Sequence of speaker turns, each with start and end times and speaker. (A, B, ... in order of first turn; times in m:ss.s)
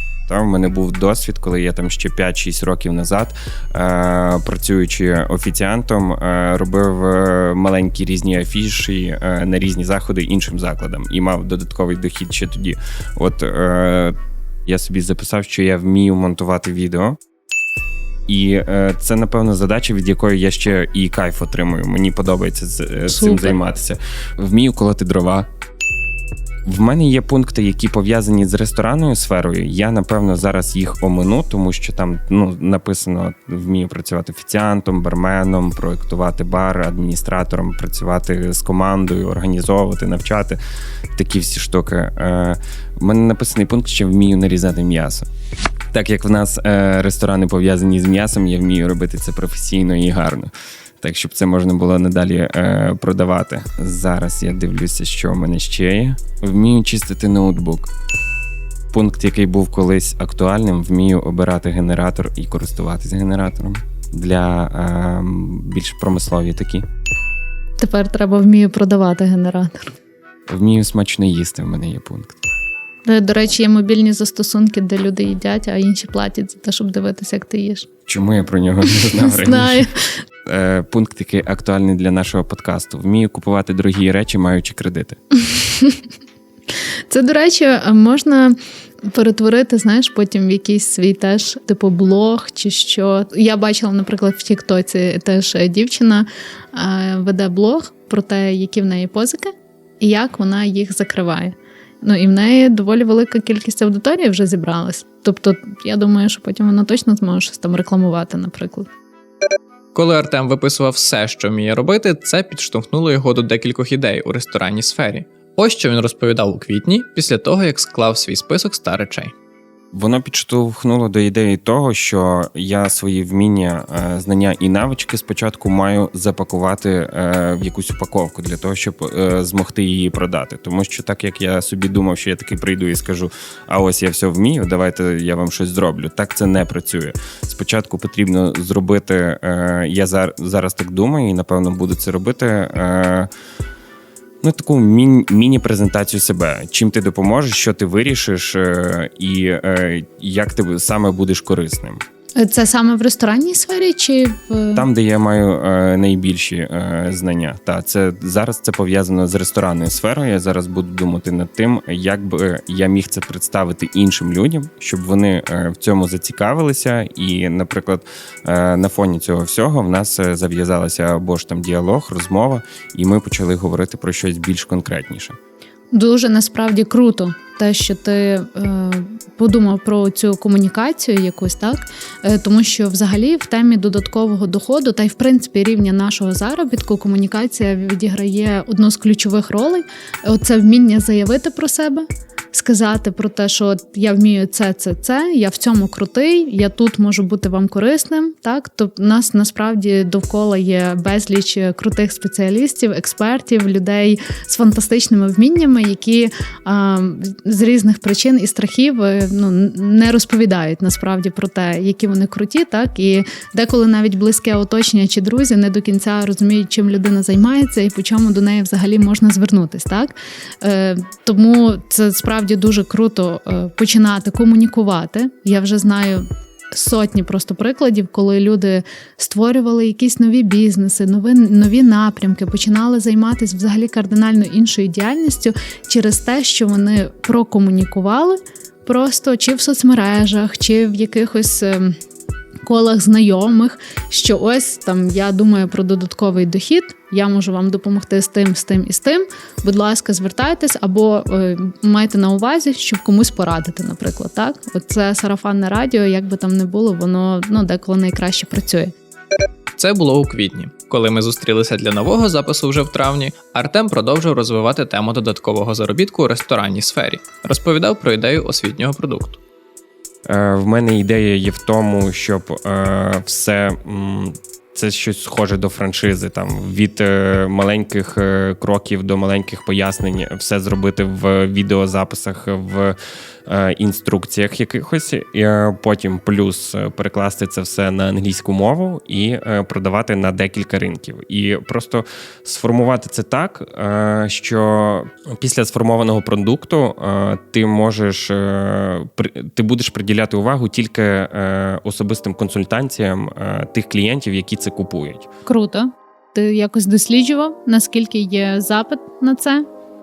0:00.3-0:17.2 A
0:18.3-0:25.5 A
0:23.1-0:23.5 B
0:26.6-0:40.6 A
0:41.1-0:45.3 A
0:45.9-0:57.9 A
0:58.9-1:06.8 A
1:07.8-1:09.9 B
1:10.5-1:12.4 A
1:13.0-1:17.9 B
1:18.1-1:19.9 A
1:19.1-1:20.2 B
1:20.4-1:25.2 A
1:25.4-1:26.0 B
1:27.1-1:48.9 B
1:49.9-1:59.3 C
1:59.9-2:23.3 A
2:24.4-2:32.0 A
2:32.4-2:34.9 B
2:34.7-2:55.4 A
2:55.9-4:02.0 B
4:02.6-4:18.9 B
4:19.8-4:29.4 C
4:30.2-5:05.3 A
5:05.4-5:09.6 B